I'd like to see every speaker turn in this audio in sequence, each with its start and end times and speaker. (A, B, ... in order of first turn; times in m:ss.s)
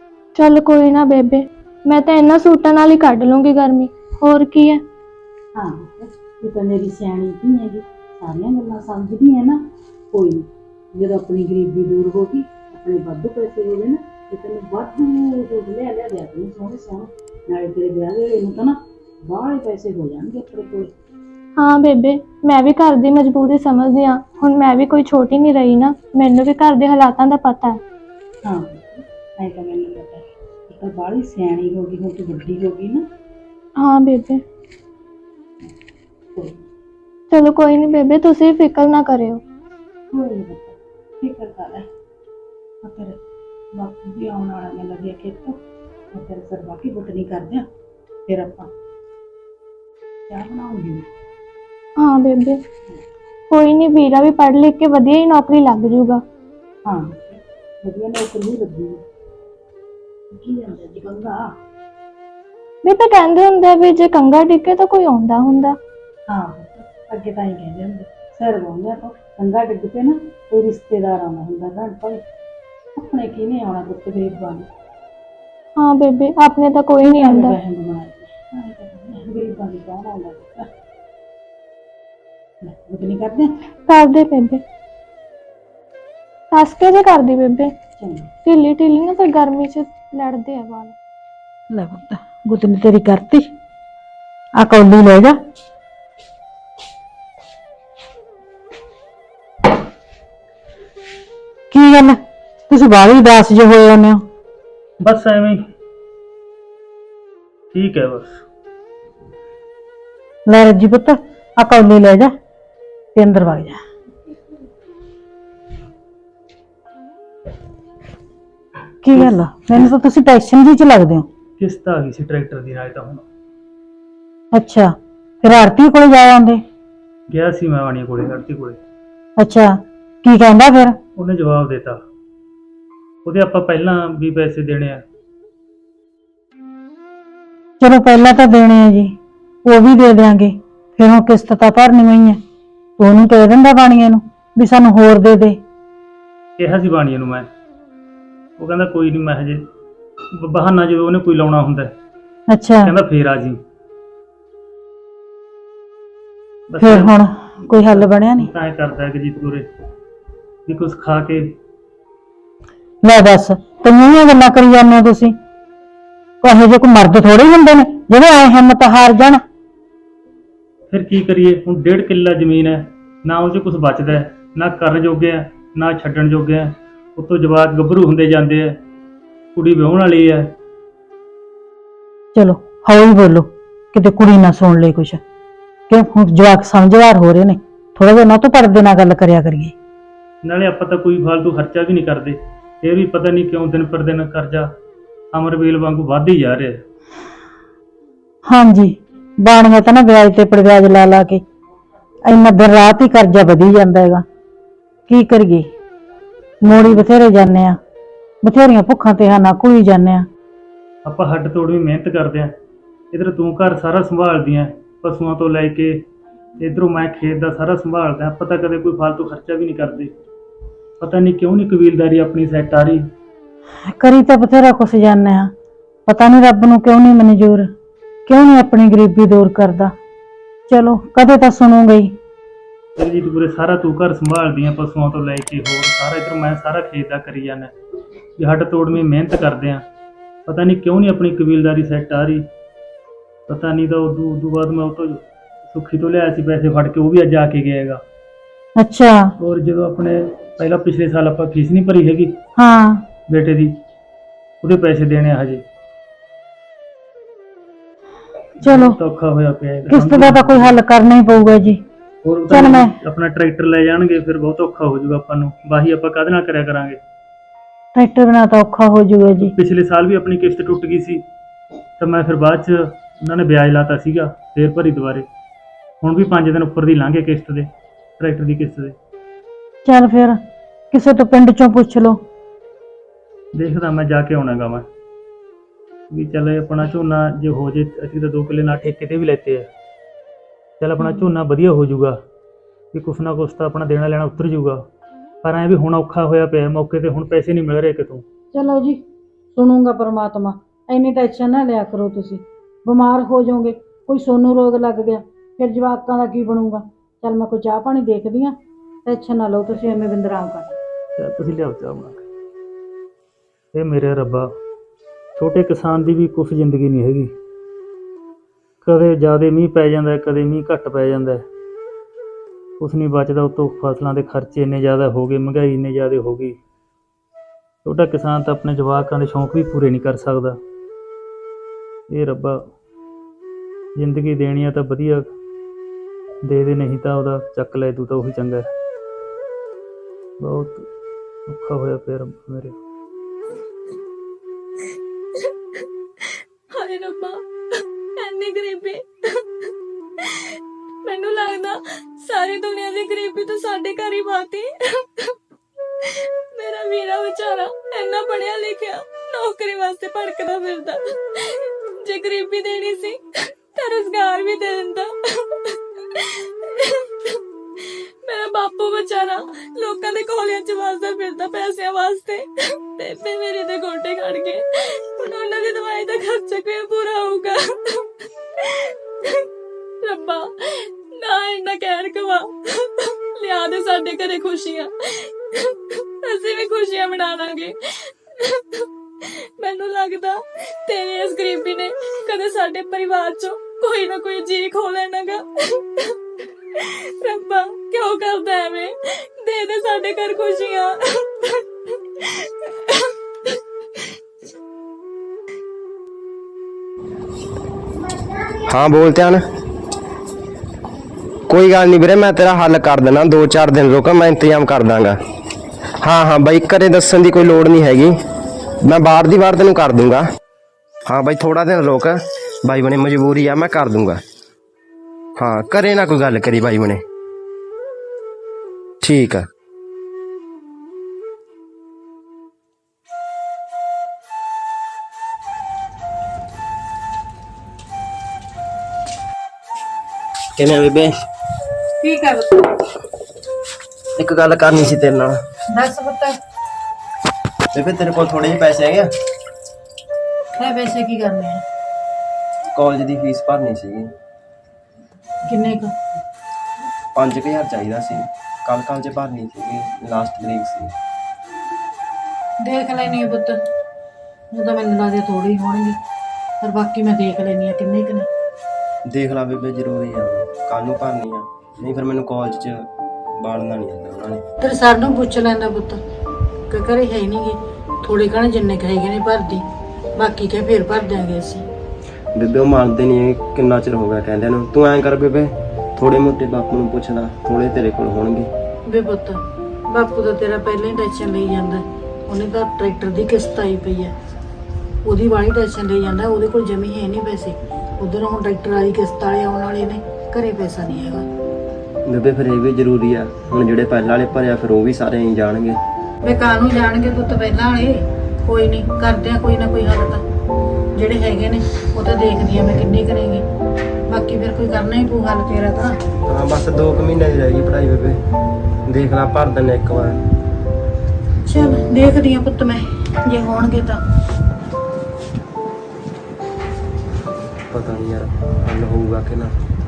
0:00.3-0:04.8 A
0:05.6-0:09.6 B
0:10.1-0:10.4 B
0:11.0-0:20.9 B
0:21.6-0:27.8 A
0:28.4-0:33.0 B
0:33.8-0:34.4 A
0:37.3-0:39.4 A
0:40.1-0:41.8 B
0:42.8-0:43.2 B
0:43.8-0:45.6 B
0:46.1-0:47.6 B
0:48.3-0:48.7 B
0:50.3-0:51.0 B
0:52.0-0:52.6 A
0:53.5-0:56.2 A
0:56.8-0:59.0 B
1:00.3-1:01.5 B
1:02.8-1:05.8 A
1:06.3-1:12.2 B
1:13.0-1:14.7 B
1:15.8-1:17.6 A
1:17.0-1:20.7 B
1:22.6-1:23.5 B
1:23.9-1:24.6 A
1:26.5-1:27.7 A
1:28.0-1:28.3 B
1:28.4-1:30.9 A
1:31.7-1:33.4 C
1:34.6-1:35.3 C
1:41.7-1:42.2 C
1:42.7-1:44.2 C
1:45.0-1:45.6 D
1:47.7-1:48.4 D
1:50.5-1:52.3 C
1:53.2-1:53.8 C
1:59.0-2:01.2 C
2:01.6-2:03.2 D
2:04.5-2:04.9 C
2:05.4-2:06.6 C
2:07.3-2:08.8 D
2:09.4-2:09.7 C
2:10.2-2:11.0 C
2:11.2-2:12.0 D
2:13.2-2:15.0 D
2:17.8-2:22.4 C
2:23.0-2:25.6 C
2:26.6-2:27.4 D
2:28.6-2:29.6 D
2:30.4-2:31.9 D
2:32.5-2:32.9 C
2:32.8-2:33.6 D
2:36.7-2:37.2 D
2:36.8-2:38.5 C
2:37.7-2:39.7 D
2:40.7-2:41.5 D
2:43.0-2:45.3 C
2:46.4-2:49.4 C
2:50.9-2:58.8 D
2:59.6-3:00.5 D
3:02.3-3:05.2 C
3:05.9-3:09.7 C
3:10.4-3:14.7 D
3:15.3-3:16.8 D
3:18.5-3:21.4 C
3:22.3-3:24.2 C
3:25.1-3:25.7 C
3:26.6-3:27.8 C
3:28.4-3:30.2 C
3:31.0-3:32.6 D
3:33.1-3:36.1 D
3:36.6-3:40.1 D
3:41.0-3:43.0 D
3:44.0-3:45.5 C
3:46.1-3:47.7 C
3:48.3-3:49.9 C
3:50.7-3:52.1 C
3:53.0-3:57.7 D
3:58.4-3:59.8 D
4:00.5-4:02.4 D
4:03.5-4:08.0 D
4:08.8-4:09.3 C
4:09.4-4:12.3 D
4:12.6-4:13.0 C
4:13.3-4:13.7 D
4:14.6-4:15.6 D
4:18.6-4:19.0 C
4:18.6-4:20.8 D
4:19.9-4:21.8 C
4:22.2-4:27.0 D
4:22.5-4:22.9 C
4:27.9-4:29.5 C
4:29.4-4:31.2 D
4:32.0-4:35.3 D
4:36.0-4:39.0 D
4:39.8-4:40.4 C
4:40.9-4:42.2 C
4:43.6-4:44.8 D
4:46.1-4:49.7 D
4:50.8-4:52.2 D
4:52.9-4:54.8 D
4:55.4-4:58.2 D
4:58.6-4:58.8 C
4:59.6-5:00.4 C
5:01.0-5:02.2 C
5:02.9-5:08.4 C
5:09.1-5:10.5 C
5:11.2-5:12.2 D
5:13.7-5:14.6 D
5:15.4-5:17.3 D
5:18.8-5:21.4 D
5:22.8-5:26.6 D
5:27.8-5:30.6 D
5:32.1-5:32.7 D
5:34.0-5:35.3 D
5:36.4-5:38.7 D
5:40.4-5:40.9 D
5:41.5-5:42.8 D
5:45.8-5:47.5 A
5:48.2-5:49.7 A
5:51.0-5:55.3 A
5:56.0-6:19.4 A
6:20.0-6:43.1 A
6:48.7-6:49.4 E
6:51.5-6:55.2 E
6:56.0-6:58.1 E
6:58.8-7:00.2 E
7:01.1-7:04.2 E
7:05.4-7:07.0 E
7:09.0-7:09.4 E
7:20.6-7:21.2 E
7:22.0-7:22.6 F
7:24.2-7:25.4 E
7:25.8-7:26.3 F
7:27.7-7:29.1 E
7:30.6-7:31.6 F
7:32.7-7:34.1 E
7:35.5-7:35.9 F
7:37.2-7:40.9 E
7:42.7-7:43.5 F
7:44.6-7:46.0 F
7:46.6-7:48.3 F
7:49.1-7:52.8 E
7:53.4-7:54.4 E
7:54.6-7:56.0 F
7:56.7-7:59.6 F
8:00.2-8:01.6 F
8:02.3-8:08.5 E
8:08.9-8:09.4 F
8:09.9-8:14.1 F
8:15.1-8:21.2 F
8:22.1-8:25.8 E
8:26.2-8:30.2 F
8:30.9-8:33.4 F
8:34.1-8:35.9 F
8:36.3-8:38.2 E
8:38.9-8:40.2 E
8:41.4-8:44.0 F
8:47.7-8:49.5 E